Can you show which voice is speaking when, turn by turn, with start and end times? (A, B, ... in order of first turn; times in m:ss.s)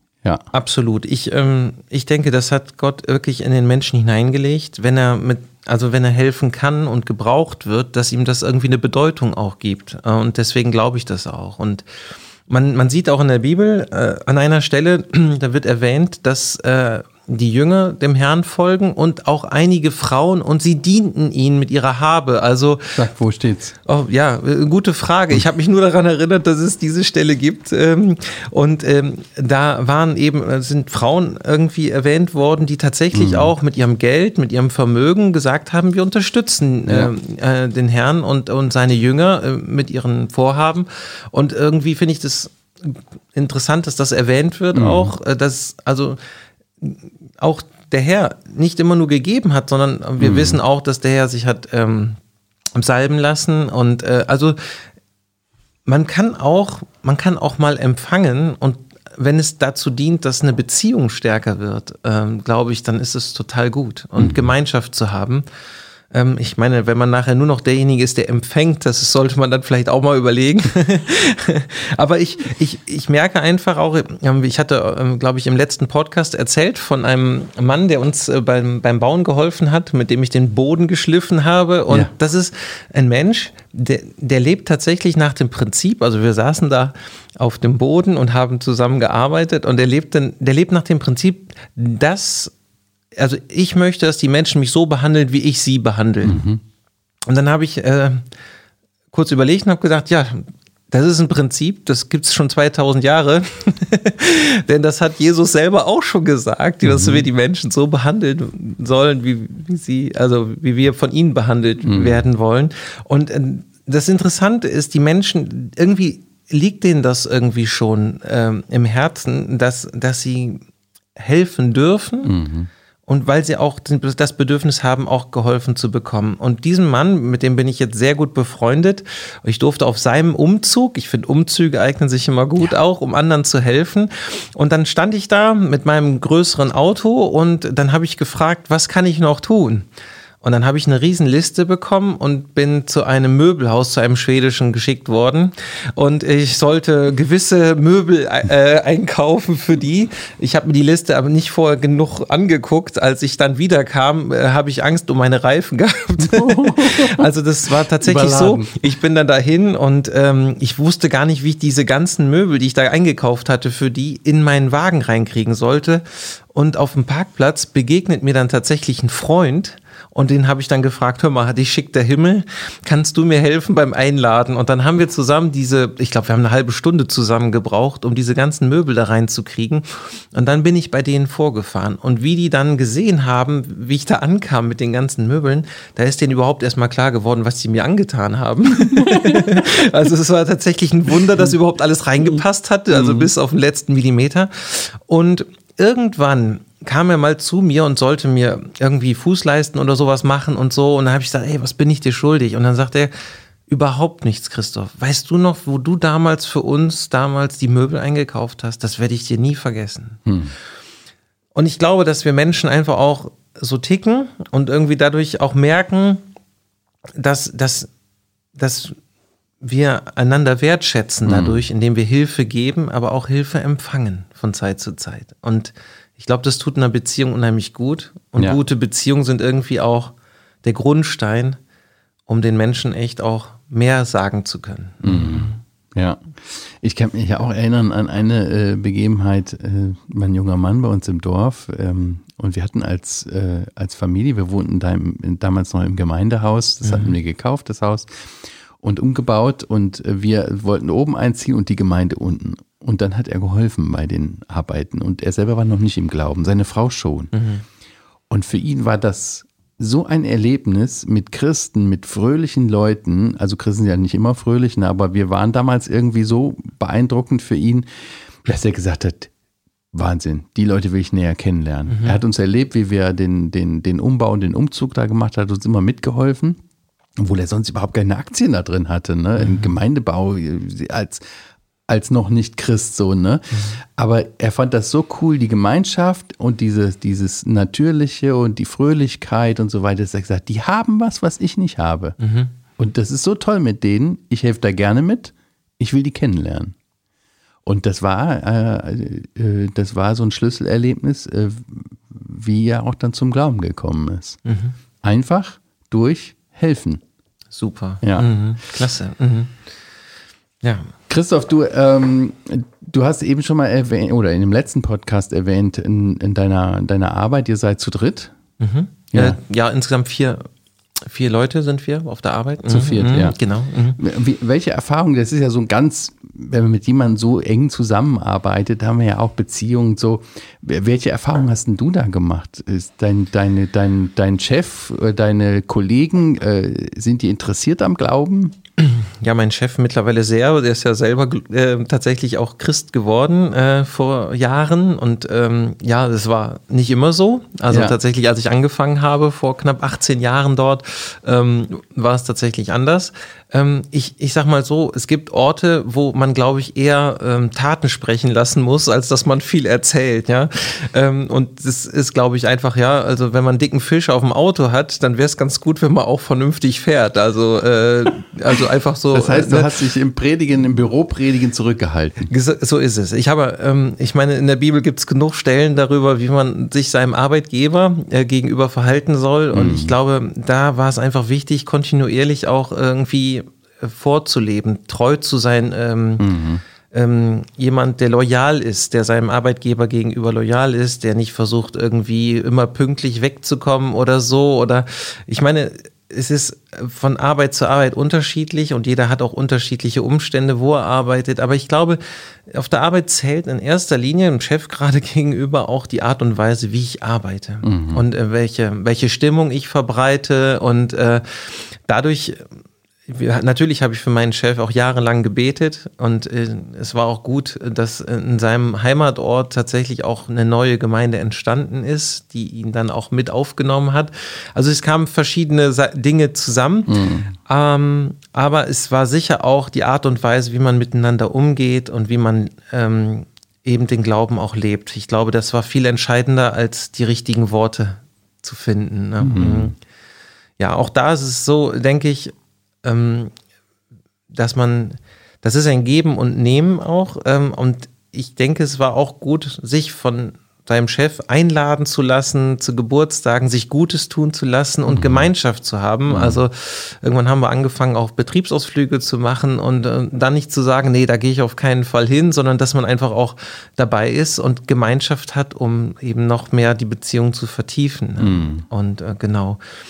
0:00.5-0:11.8 A
0:12.5-0:23.0 A
0:22.9-0:23.7 B
0:23.8-0:46.2 A
0:33.1-0:33.5 B
0:36.9-0:37.1 B
0:44.7-0:45.1 B
0:46.8-0:52.2 A
0:50.2-0:50.6 B
0:52.7-0:54.6 A
0:55.8-1:05.4 A
1:04.2-1:04.5 B
1:06.1-1:32.5 A
1:33.2-1:36.4 A
1:36.2-1:36.6 B
1:37.3-1:38.2 A
1:39.1-2:00.6 A
1:46.8-1:47.2 B
1:51.8-1:52.2 B
2:01.2-2:02.3 A
2:02.2-2:02.7 B
2:03.0-2:19.9 A
2:20.4-3:23.1 A
2:36.2-2:37.3 B
2:38.0-2:38.7 B
3:08.9-3:09.7 B
3:12.9-3:13.3 B
3:23.7-3:30.2 A
3:30.2-3:30.5 B
3:31.5-3:36.2 A
3:37.2-3:37.9 A
3:38.5-3:39.0 A
3:39.6-3:51.6 A
3:41.2-3:41.6 B
3:52.3-3:55.6 A
3:55.0-4:08.1 B
4:06.8-4:07.1 A
4:08.8-4:17.3 B
4:17.3-4:17.6 A
4:18.3-4:29.3 B
4:29.9-4:36.6 B
4:31.9-4:32.2 A
4:37.2-4:41.2 B
4:39.4-4:39.8 A
4:41.9-4:52.2 B
4:43.5-4:43.8 A
4:52.2-4:52.5 A
4:52.8-4:56.8 B
4:57.6-5:04.4 B
5:04.4-5:04.8 A
5:05.0-5:07.0 B
5:07.5-5:09.5 A
5:08.0-5:08.3 B
5:10.6-5:10.9 A
5:11.1-5:18.3 B
5:18.6-5:20.5 A
5:19.1-5:19.4 B
5:21.0-5:24.0 A
5:22.7-5:23.3 B
5:24.0-5:38.6 B
5:38.8-6:09.7 A
5:47.7-5:48.0 B
6:09.1-6:12.3 B
6:12.3-6:26.3 A
6:19.5-6:19.9 B
6:26.2-6:26.6 B
6:26.9-6:52.4 A
6:47.6-6:48.0 B
6:53.1-7:19.7 A
7:06.9-7:07.3 B
7:19.2-7:19.7 B
7:20.6-7:23.3 A
7:24.3-7:49.6 A
7:34.9-7:35.3 B
7:36.1-7:36.4 B
7:48.2-7:48.6 B